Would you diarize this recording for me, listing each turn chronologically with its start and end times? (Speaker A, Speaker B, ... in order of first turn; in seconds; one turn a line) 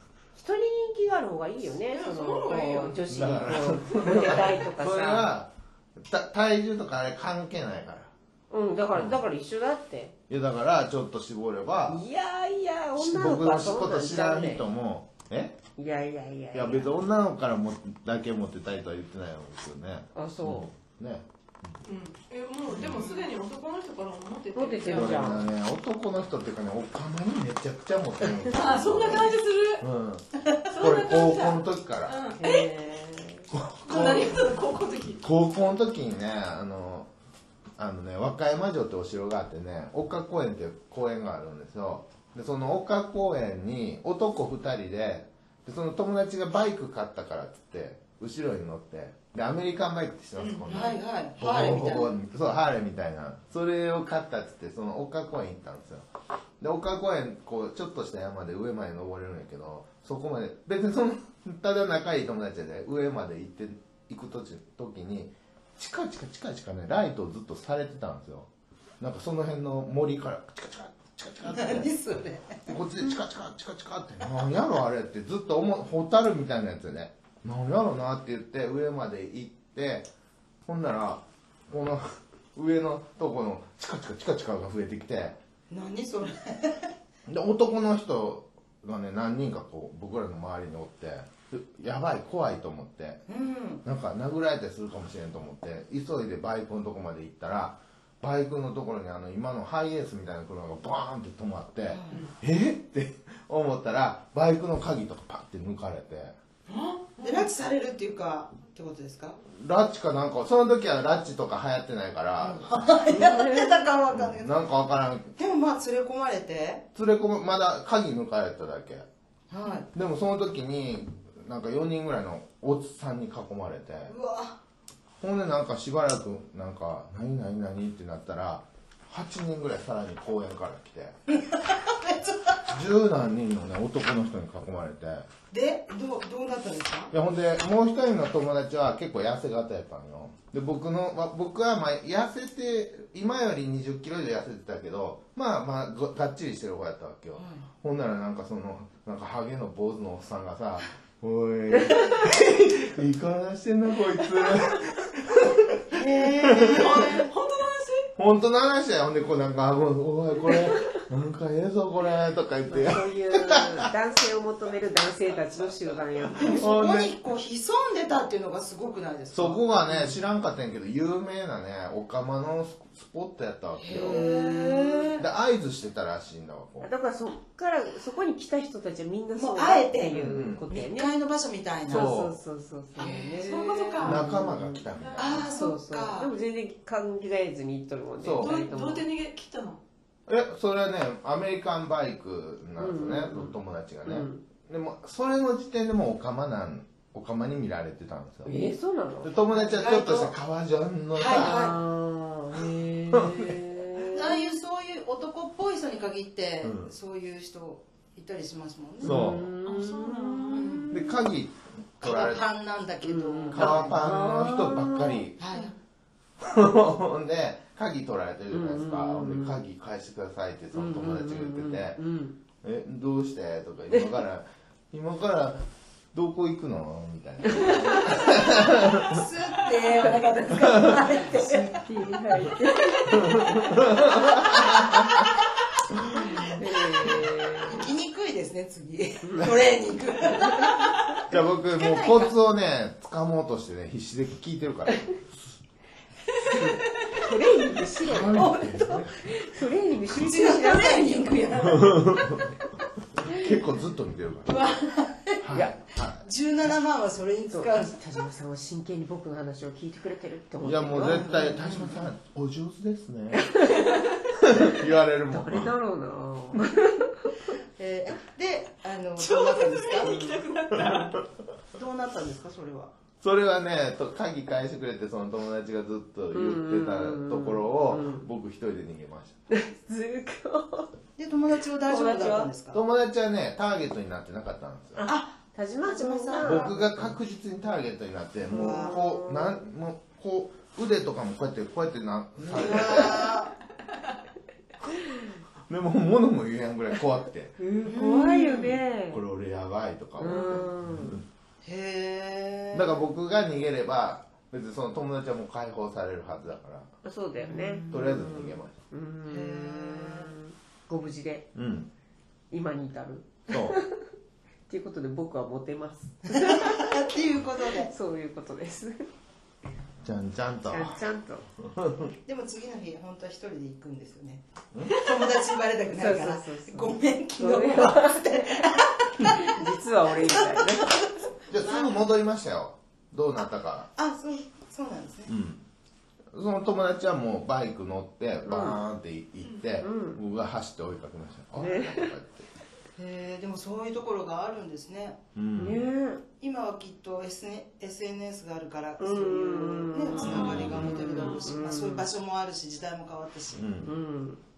Speaker A: 0.3-5.3
Speaker B: 1.9-3.1
Speaker C: 3.1-8.1
Speaker A: 8.5-10.2
Speaker C: 8.9-9.2
Speaker C: 10.3-12.0
Speaker A: 11.9-14.7
Speaker C: 13.0-15.6
Speaker A: 15.8-17.0
Speaker C: 16.5-21.8
Speaker A: 20.1-20.7
Speaker B: 21.8-25.4
Speaker C: 22.7-23.0
Speaker A: 24.5-25.5
Speaker C: 24.9-32.3
Speaker B: 28.5-29.9
Speaker B: 30.7-32.6
Speaker A: 32.4-33.5
Speaker C: 33.5-34.5
Speaker B: 33.9-35.2
Speaker C: 35.2-37.1
Speaker C: 37.8-56.1
Speaker B: 50.4-51.0
Speaker D: 50.6-52.1
Speaker C: 56.6-68.5
Speaker C: 69.0-71.9
Speaker D: 71.5-72.7
Speaker C: 72.7-80.1
Speaker C: 80.7-85.4
Speaker D: 85.7-86.9
Speaker C: 87.3-93.3
Speaker D: 93.3-93.8
Speaker C: 93.8-106.4
Speaker D: 101.9-102.2
Speaker B: 106.7-107.5
Speaker D: 107.2-109.4
Speaker C: 109.5-112.7
Speaker D: 112.4-114.5
Speaker A: 113.1-113.8
Speaker C: 114.1-115.3
Speaker D: 115.4-116.8
Speaker C: 116.9-119.1
Speaker D: 119.5-119.9
Speaker C: 119.9-124.1
Speaker D: 124.1-124.6
Speaker C: 125.2-131.2
Speaker D: 131.3-132.6
Speaker C: 132.7-135.3
Speaker D: 135.5-137.1
Speaker C: 137.1-157.2
Speaker D: 147.4-147.7
Speaker D: 155.9-157.0
Speaker B: 156.7-158.1
Speaker C: 158.2-163.9
Speaker A: 162.7-166.6
Speaker D: 166.4-170.2
Speaker C: 166.6-167.1
Speaker C: 169.3-174.2
Speaker D: 173.8-175.3
Speaker A: 173.9-175.1
Speaker C: 175.2-176.9
Speaker A: 176.8-181.2
Speaker D: 179.3-182.1
Speaker C: 180.1-180.6
Speaker C: 181.9-182.4
Speaker A: 181.9-184.8
Speaker B: 183.0-184.3
Speaker D: 183.3-184.0
Speaker C: 184.0-185.5
Speaker B: 185.0-185.4
Speaker D: 185.2-186.3
Speaker A: 185.5-189.1
Speaker C: 188.2-188.6
Speaker B: 188.4-189.8
Speaker C: 190.3-198.6
Speaker A: 192.8-194.4
Speaker A: 198.4-199.3
Speaker C: 199.2-201.7
Speaker D: 199.4-200.4
Speaker D: 201.1-201.8
Speaker A: 201.3-204.4
Speaker C: 203.1-203.5
Speaker D: 204.1-209.2
Speaker C: 206.6-206.9
Speaker A: 209.0-211.2
Speaker C: 209.0-209.5
Speaker B: 209.6-210.8
Speaker D: 210.6-210.9
Speaker C: 210.9-212.4
Speaker D: 212.0-214.0
Speaker A: 213.0-215.3
Speaker C: 213.5-215.4
Speaker D: 215.4-215.7
Speaker C: 216.4-222.0
Speaker A: 218.5-219.6
Speaker A: 220.7-222.3
Speaker C: 222.6-229.2
Speaker B: 227.6-227.9
Speaker D: 227.7-231.8
Speaker A: 230.1-234.2
Speaker C: 233.2-235.3
Speaker D: 236.3-237.1
Speaker A: 236.3-237.9
Speaker D: 237.6-241.2
Speaker A: 239.2-239.6
Speaker C: 241.3-245.3
Speaker D: 241.8-242.3
Speaker A: 246.5-251.6
Speaker C: 248.0-249.2
Speaker D: 248.3-248.7
Speaker D: 250.1-252.2
Speaker C: 251.8-252.5
Speaker C: 253.3-254.7
Speaker B: 254.5-254.9
Speaker D: 254.9-255.4
Speaker C: 255.4-256.3
Speaker D: 256.2-258.0
Speaker A: 257.5-261.4
Speaker C: 260.6-263.5
Speaker D: 261.0-262.0
Speaker A: 263.3-263.8
Speaker C: 264.3-265.8
Speaker A: 265.3-267.3
Speaker D: 267.8-270.2
Speaker B: 269.2-271.2
Speaker A: 270.0-270.5
Speaker D: 271.7-272.9
Speaker C: 273.2-279.4
Speaker A: 276.3-278.3
Speaker A: 279.5-280.9
Speaker D: 281.2-282.8
Speaker A: 281.8-282.5
Speaker C: 282.7-285.0
Speaker A: 285.0-287.1
Speaker D: 285.1-286.9
Speaker C: 286.4-293.2
Speaker A: 288.5-289.6
Speaker D: 288.5-289.0
Speaker D: 292.5-293.5
Speaker C: 295.7-297.6
Speaker A: 297.6-299.2
Speaker D: 297.9-298.8
Speaker C: 299.1-301.2
Speaker A: 300.2-301.2
Speaker D: 301.6-302.9
Speaker C: 302.7-306.9
Speaker A: 307.0-311.5
Speaker D: 307.4-308.1
Speaker C: 307.9-308.8
Speaker D: 309.3-310.3
Speaker C: 311.6-311.9
Speaker A: 312.5-313.8
Speaker C: 313.5-313.8
Speaker A: 314.7-317.0
Speaker D: 316.3-317.9
Speaker A: 317.8-319.1
Speaker C: 320.0-321.1
Speaker A: 320.7-321.4
Speaker C: 321.8-322.1
Speaker D: 322.2-324.4
Speaker D: 324.9-329.6
Speaker A: 325.9-331.0
Speaker D: 330.2-330.9
Speaker C: 331.5-333.9
Speaker B: 331.6-332.0
Speaker D: 334.0-335.3
Speaker C: 335.3-335.6
Speaker C: 336.3-342.5
Speaker A: 338.4-338.8
Speaker B: 339.4-339.7
Speaker A: 339.8-340.2
Speaker A: 341.6-342.1
Speaker D: 343.0-345.2
Speaker C: 345.4-345.9
Speaker A: 345.5-346.2
Speaker D: 346.4-353.7
Speaker A: 349.0-352.1
Speaker B: 350.1-351.6
Speaker C: 350.2-351.3
Speaker C: 353.5-353.9
Speaker A: 353.8-354.4